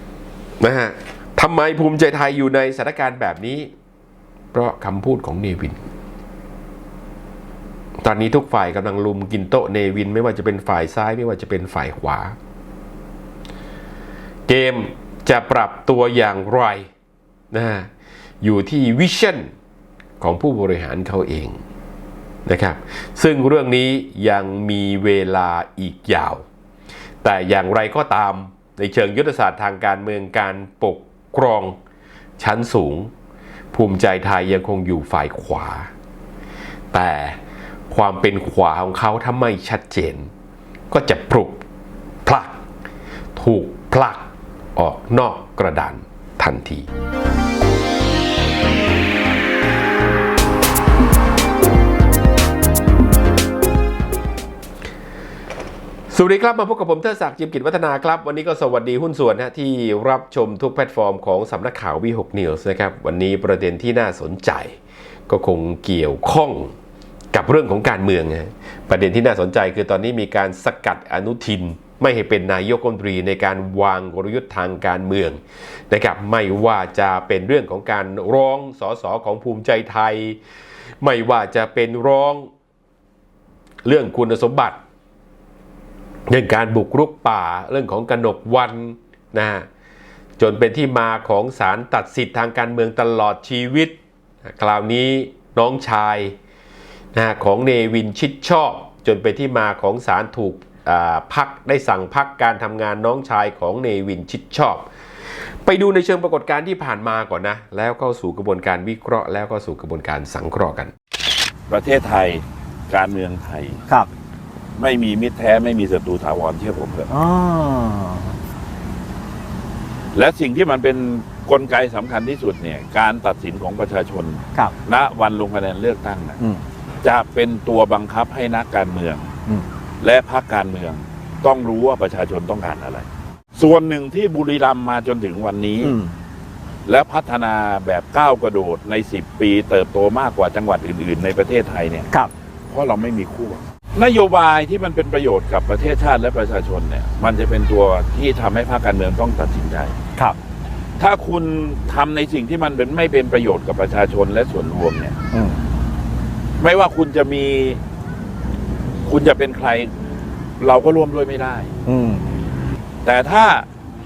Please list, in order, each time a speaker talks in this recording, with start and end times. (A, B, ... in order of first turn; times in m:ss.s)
0:00.6-0:03.7 A
0:04.5-0:05.8 A
0:08.0-0:12.3 A
0:14.5-0:16.9 A
0:17.5-0:17.9 A
0:18.4-0:19.5 A
0:20.2-0:21.6 A
0:22.4-0:26.4 A
0:27.2-0:31.8 A
0:32.4-0:33.1 A
0:33.7-0:35.9 A
0:36.9-0:37.4 A
0:37.9-0:40.3 A
0:40.9-0:41.6 A
0:42.2-0:42.6 A
0:43.4-0:46.8 A
0:56.1-1:04.8 A
1:05.3-1:06.7 A
1:07.3-1:20.4 A
1:21.0-1:22.5 A
1:23.8-1:24.8 A
1:26.3-1:29.7 A
1:30.4-1:36.3 A
1:37.1-1:44.9 A
1:45.6-1:50.9 A
1:51.7-1:53.8 B
1:54.8-1:57.1 B
1:57.1-1:58.4 C
2:00.1-2:06.4 B
2:07.0-2:09.3 B
2:10.0-2:16.0 B
2:15.8-2:16.2 C
2:16.9-2:22.1 B
2:22.7-2:29.9 B
2:31.0-2:35.2 B
2:35.3-2:35.6 C
2:36.6-2:37.8 B
2:39.1-2:39.9 B
2:40.6-2:41.7 B
2:41.9-2:42.3 C
2:43.0-2:43.7 B